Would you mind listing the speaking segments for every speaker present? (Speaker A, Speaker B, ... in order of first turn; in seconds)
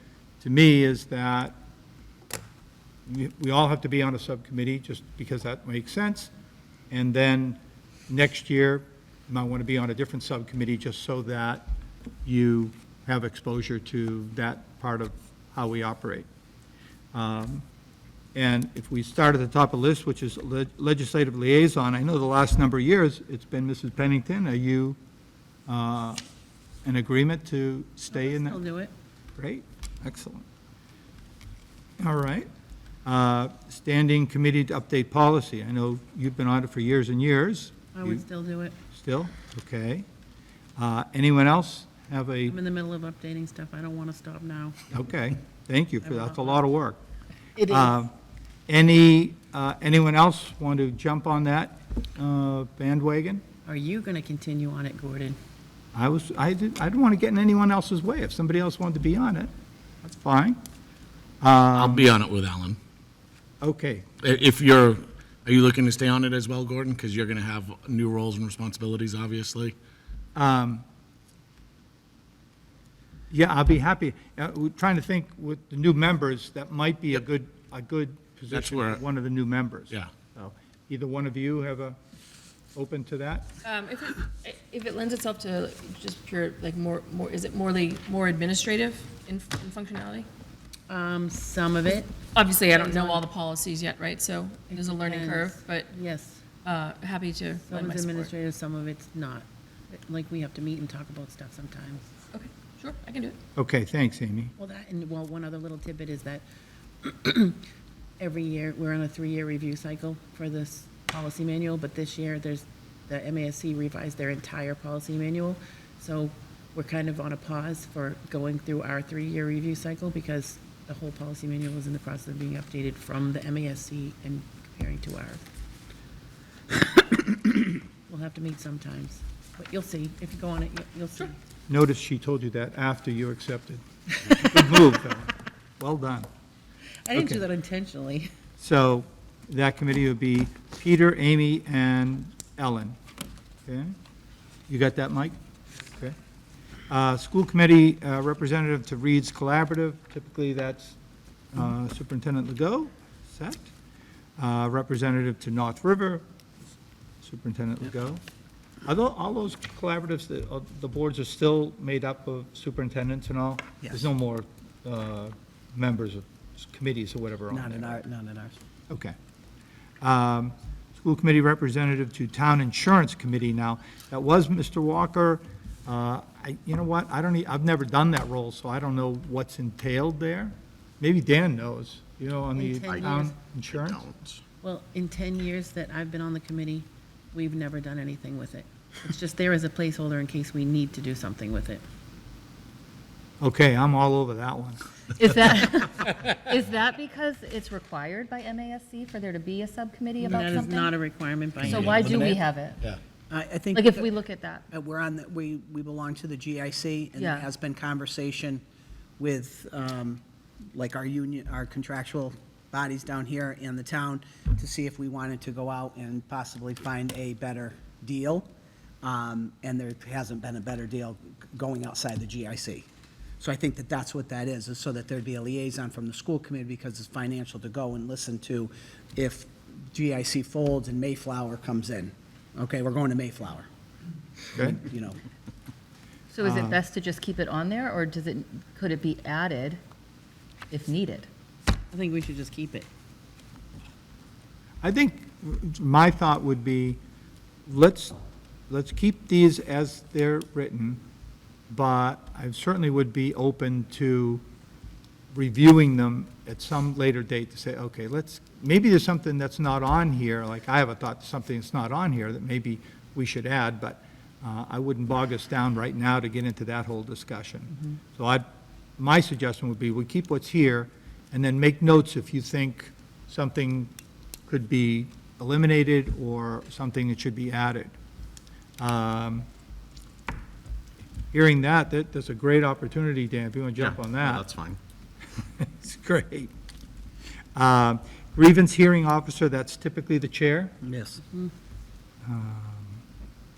Speaker A: 0.4-1.6, 3.1-6.3, 6.9-11.7, 12.2-16.3, 17.1-17.6, 18.4-25.0, 25.7-26.2, 26.9-28.6, 29.4-30.5, 32.0-32.5, 33.0-38.2, 38.9-40.1, 40.8-42.6, 44.9-47.0, 47.6-48.1, 48.7-53.4, 55.9-59.5, 60.0-60.6, 61.4-62.1, 63.6-64.1, 70.4-70.8, 73.3-82.0, 82.8-83.5, 103.6-104.5, 131.7-136.3, 137.1-137.4, 138.6-143.0, 143.7-143.9, 144.7-145.4, 145.9-146.2, 146.9-151.0, 151.5-153.7, 154.4-156.2, 157.2-158.2, 158.8-168.0, 168.9-169.2, 170.0-184.0, 193.4-194.8, 236.4-236.8, 244.8-247.0, 247.7-248.2, 248.7-251.0, 251.7-254.4, 255.3-268.5, 269.0-273.9, 274.5-277.9, 278.8-279.5, 281.3-284.5, 285.6-286.5, 287.6-290.8, 292.2-293.0
Speaker B: 28.1-28.9, 38.0-38.8, 42.5-44.8, 46.0-46.6, 47.6-47.9, 53.7-55.4, 90.9-92.2, 92.7-93.2, 94.7-96.5, 97.7-102.1, 104.6-106.5, 107.0-107.6, 108.2-125.5, 126.9-131.4, 137.1-138.3, 182.6-183.3, 184.6-191.8, 200.2-202.3, 241.9-242.9
Speaker C: 61.7-62.8, 64.2-69.8, 78.5-79.0, 183.7-184.4, 201.7-203.0, 283.8-284.8
Speaker D: 83.6-90.3, 92.3-95.9, 96.6-98.3, 102.3-103.4
Speaker E: 163.8-164.1, 167.5-168.6, 203.3-204.1, 204.7-208.6, 209.2-210.2, 210.7-218.5, 219.0-222.9, 223.4-233.7, 234.6-235.2, 290.8-291.2
Speaker F: 195.2-200.9, 201.6-202.8, 203.7-204.6, 207.2-207.5, 236.3-239.8, 240.7-241.3